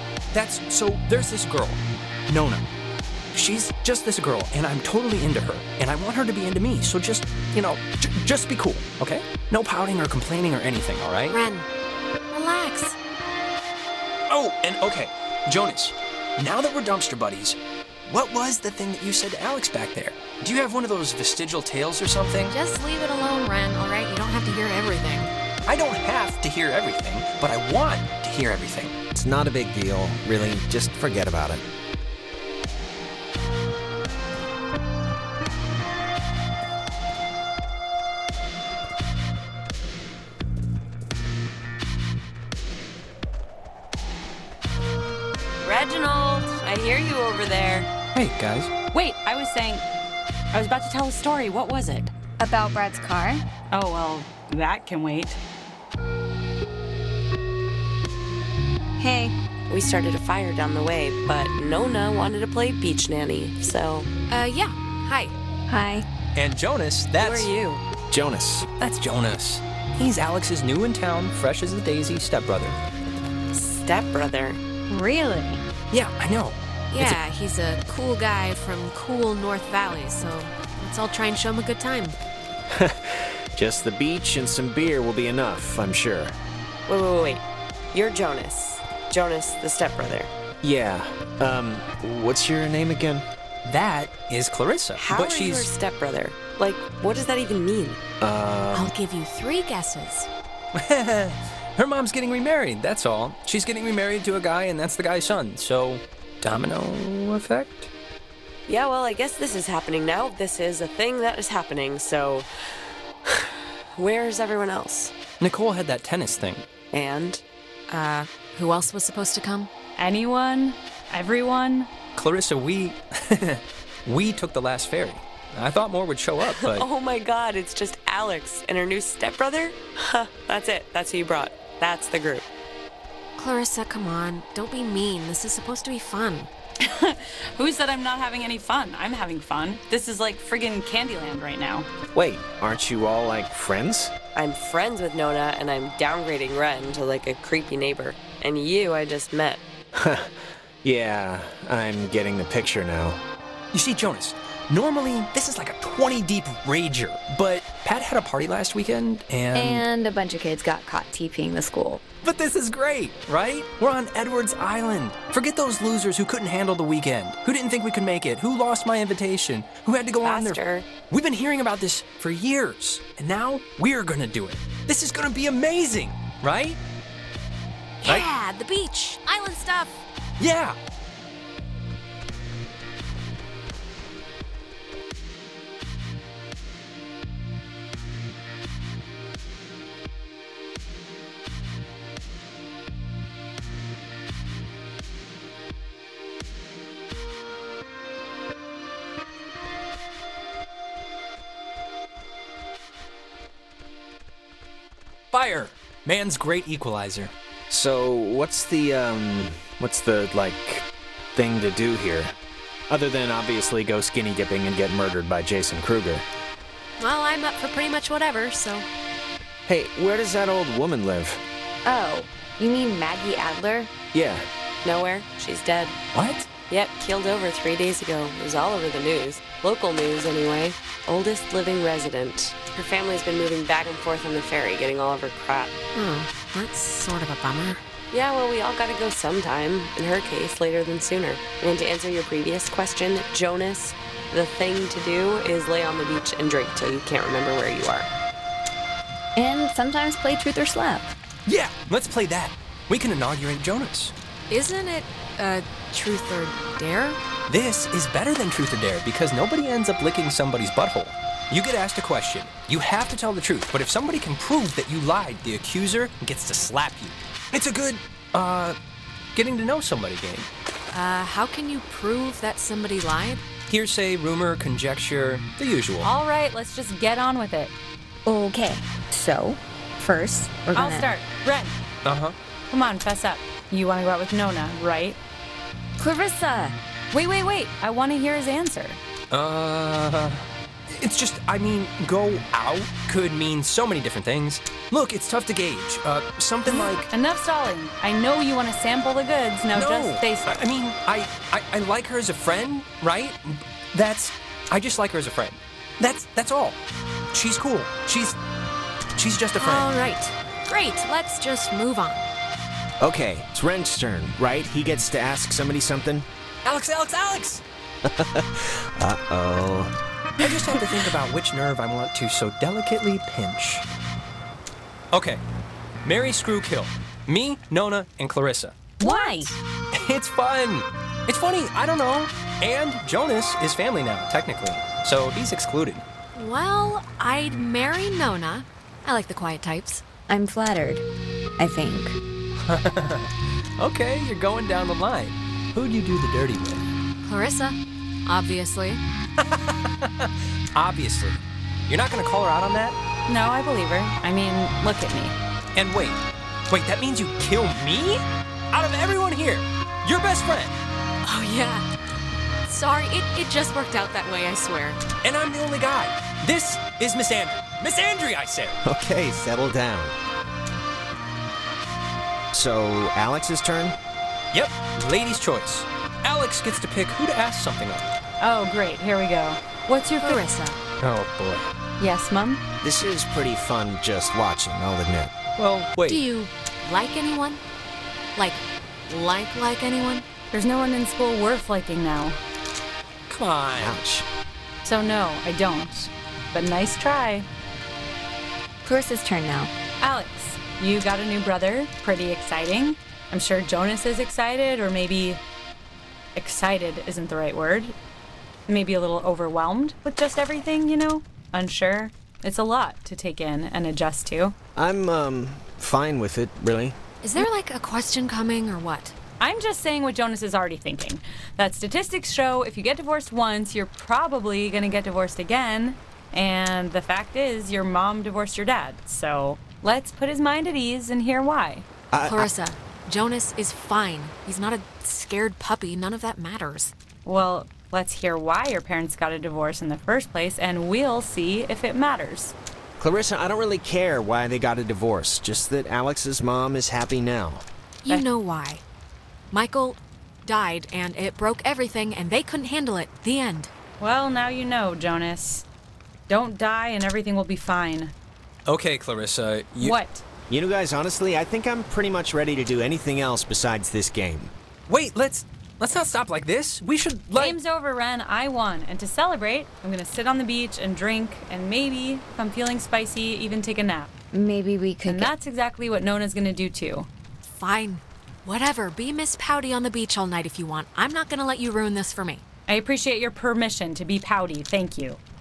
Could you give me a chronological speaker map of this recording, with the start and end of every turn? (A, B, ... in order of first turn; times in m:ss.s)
0:00.3-0:02.7 A
0:03.3-0:11.4 A
0:11.3-0:11.7 B
0:12.3-0:13.0 B
0:14.3-0:22.6 A
0:22.5-0:25.3 B
0:25.6-0:28.9 A
0:29.1-0:31.6 C
0:45.6-0:47.9 D
0:48.1-0:48.7 A
0:48.9-0:49.9 E
0:50.5-0:52.1 E
0:52.4-0:53.4 F
0:53.7-0:55.4 E
0:59.0-0:59.4 F
0:59.7-1:04.1 D
1:04.3-1:05.4 B
1:05.7-1:06.1 F
1:06.4-1:07.5 A
1:07.2-1:07.8 D
1:08.1-1:08.7 C
1:08.8-1:12.8 A
1:13.5-1:14.6 D
1:14.9-1:15.6 F
1:15.9-1:17.2 A
1:16.9-1:22.2 B
1:22.7-1:26.4 C
1:26.9-1:30.3 D
1:30.6-1:33.3 C
1:33.6-1:35.7 A
1:35.0-1:38.0 D
1:38.2-1:38.9 C
1:38.7-1:40.3 B
1:40.8-1:47.9 A
1:48.7-1:52.5 D
1:54.0-1:55.1 D
1:55.4-1:56.7 A
1:56.9-1:57.4 D
1:57.9-1:59.7 B
2:00.0-2:01.9 E
2:02.2-2:06.9 A
2:06.4-2:12.5 D
2:13.4-2:16.5 B
2:16.8-2:21.9 E
2:22.1-2:24.1 C
2:24.4-2:29.6 D
2:30.0-2:33.2 C
2:33.7-2:39.9 A
2:39.5-2:42.0 F
2:42.2-2:56.8 A
2:50.2-2:50.9 D
2:58.0-3:00.0 B
3:00.4-3:00.8 A
3:25.3-3:27.3 A
3:27.7-3:32.4 C
3:32.9-3:36.3 C
3:37.0-3:38.9 B
3:39.7-3:41.4 C
3:41.8-3:43.9 F
3:44.1-3:44.5 C
3:44.8-3:46.0 D
3:46.2-3:46.5 A
3:46.6-3:55.8 D
3:56.0-3:57.9 B
3:58.1-4:08.1 D
4:09.4-4:11.1 F
4:11.5-4:14.1 A
4:14.5-4:17.2 B
4:17.5-4:28.8 A
4:29.4-4:30.5 A
4:30.9-4:33.4 B
4:33.7-4:36.1 A
4:36.0-4:37.7 E
4:38.3-4:41.1 F
4:40.8-4:41.8 E
4:42.0-4:42.4 A
4:42.7-4:45.2 E
4:46.0-4:46.8 F
4:47.1-4:49.0 E
4:49.3-4:57.1 A
4:56.7-5:00.6 E
4:59.7-5:06.8 A
5:07.3-5:08.4 A
5:09.2-5:09.9 A
5:09.6-5:12.3 B
5:13.0-5:16.3 C
5:16.6-5:17.6 A
5:18.0-5:19.9 C
5:20.4-5:23.8 A
5:25.1-5:25.4 A
5:26.0-5:28.9 A
5:29.0-5:29.5 F
5:29.0-5:29.5 E
5:29.9-5:36.0 A
5:36.4-5:40.0 B
5:40.3-5:41.0 F
5:41.6-5:42.2 F
5:42.6-5:46.8 A
5:47.2-5:49.0 B
5:49.4-5:53.0 A
5:53.3-5:55.4 E
5:55.8-6:00.8 A
6:01.2-6:01.8 B
6:02.7-6:05.0 B
6:05.2-6:08.8 A
6:08.8-6:10.2 C
6:12.5-6:14.0 C
6:14.5-6:18.1 A
6:18.4-6:20.4 E
6:20.2-6:20.8 B
6:21.0-6:21.7 A
6:22.0-6:22.6 E
6:22.8-6:25.3 C
6:25.6-6:26.2 A
6:26.1-6:27.6 B
6:28.4-6:30.3 B
6:30.5-6:32.4 E
6:33.3-6:34.0 A
6:33.7-6:34.3 C
6:34.8-6:37.5 E
6:38.8-6:39.7 F
6:40.0-6:45.4 E
6:46.4-6:48.0 E
6:48.7-6:54.6 E
6:54.8-6:57.0 C
6:57.2-6:59.2 B
6:59.4-7:11.9 E
7:12.1-7:12.5 C
7:12.3-7:16.9 B
7:17.2-7:22.6 E
7:23.0-7:27.6 C
7:28.0-7:28.8 B
7:29.5-7:33.7 B
7:34.0-7:35.7 E
7:36.3-7:38.1 E
7:38.7-7:40.0 A
7:39.8-7:40.2 E
7:40.5-7:44.5 C
7:44.9-7:47.6 A
7:47.4-7:54.1 E
7:54.3-7:55.3 F
7:55.1-7:57.1 E
7:57.5-8:02.4 B
8:02.7-8:05.2 E